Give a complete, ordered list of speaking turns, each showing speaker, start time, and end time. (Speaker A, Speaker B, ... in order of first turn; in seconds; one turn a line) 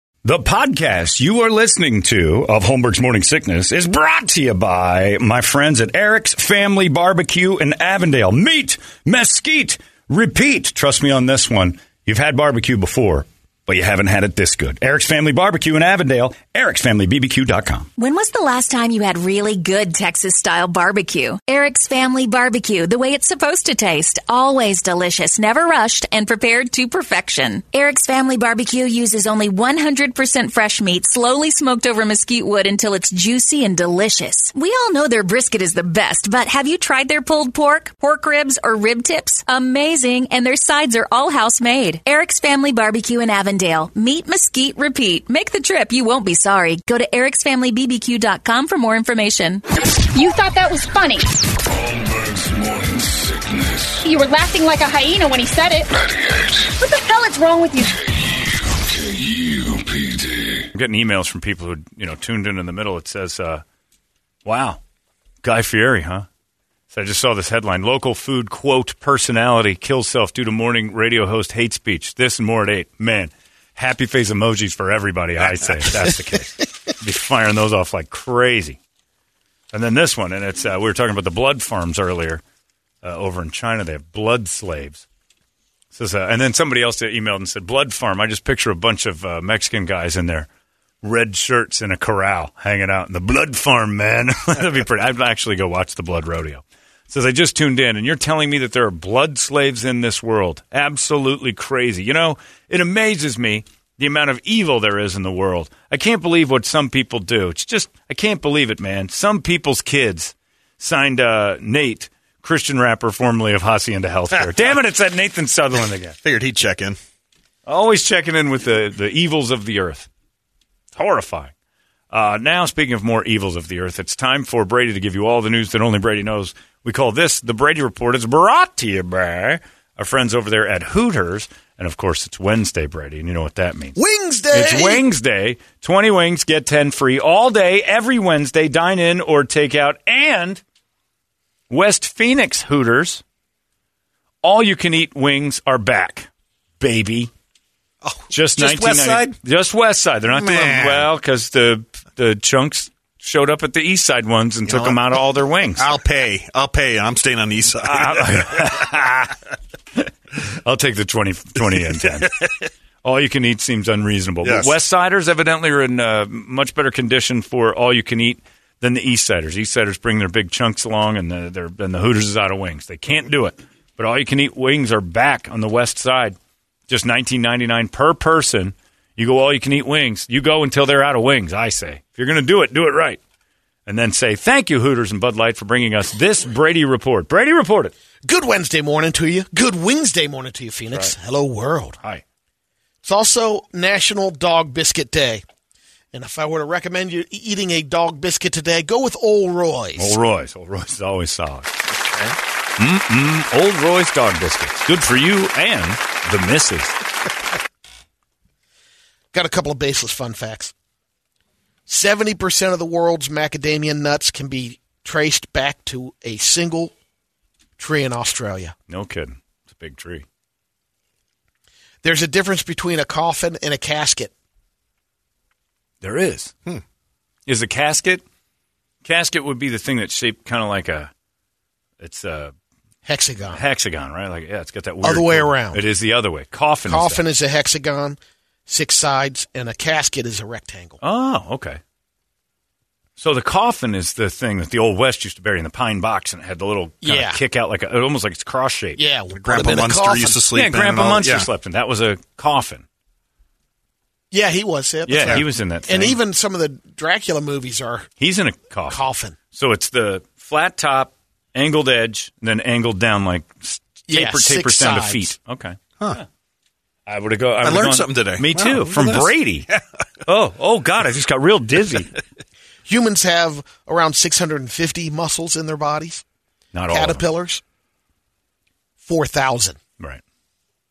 Speaker A: 0.2-17.9
Speaker B: 18.0-49.6
Speaker C: 50.1-51.3
Speaker D: 51.7-54.1
Speaker C: 54.0-55.9
Speaker D: 55.9-56.7
Speaker C: 56.8-57.9
Speaker D: 58.1-60.7
Speaker A: 60.7-63.6
Speaker A: 64.5-64.8
Speaker A: 65.4-66.3
Speaker A: 66.9-78.8
Speaker A: 79.7-82.4
Speaker A: 83.0-85.0
Speaker A: 85.9-90.5
Speaker A: 91.0-116.2
Speaker E: 116.2-117.0
Speaker A: 117.7-120.1
Speaker A: 121.0-121.5
Speaker A: 122.1-134.0
Speaker F: 134.0-135.1
Speaker A: 134.5-140.6
Speaker A: 141.7-143.2
Speaker A: 144.4-146.3
Speaker A: 146.8-147.3
Speaker E: 148.0-149.4
Speaker A: 148.3-155.9
Speaker E: 150.3-151.1
Speaker E: 154.7-155.1
Speaker E: 155.8-158.7
Speaker A: 157.8-159.4
Speaker A: 160.0-162.4
Speaker E: 162.1-162.5
Speaker A: 163.0-176.4
Speaker E: 164.4-164.7
Speaker A: 176.9-183.2
Speaker A: 183.9-187.9
Speaker F: 188.2-192.0
Speaker F: 193.0-195.4
Speaker F: 196.1-200.2
Speaker A: 200.0-201.8
Speaker A: 202.8-207.0
Speaker F: 209.3-210.7
Speaker F: 211.9-216.9
Speaker F: 217.8-218.8
Speaker A: 218.9-220.2
Speaker F: 222.0-224.3
Speaker A: 226.0-226.6
Speaker A: 227.5-228.2
Speaker A: 229.0-231.1
Speaker A: 232.0-232.5
Speaker F: 233.1-233.6
Speaker A: 233.5-237.2
Speaker F: 235.0-235.8
Speaker F: 236.9-241.0
Speaker A: 241.0-241.8
Speaker A: 243.2-249.0
Speaker F: 247.0-247.4
Speaker F: 249.0-250.4
Speaker E: 249.3-251.5
Speaker A: 250.5-252.8
Speaker F: 254.3-258.1
Speaker A: 255.1-256.2
Speaker E: 255.2-255.4
Speaker A: 258.2-266.2
Speaker F: 258.9-259.4
Speaker F: 264.1-265.3
Speaker A: 267.1-269.7
Speaker E: 267.6-269.8
Speaker A: 270.3-272.2
Speaker F: 272.9-276.2
Speaker A: 276.7-277.2
Speaker F: 276.9-277.6
Speaker F: 279.0-279.8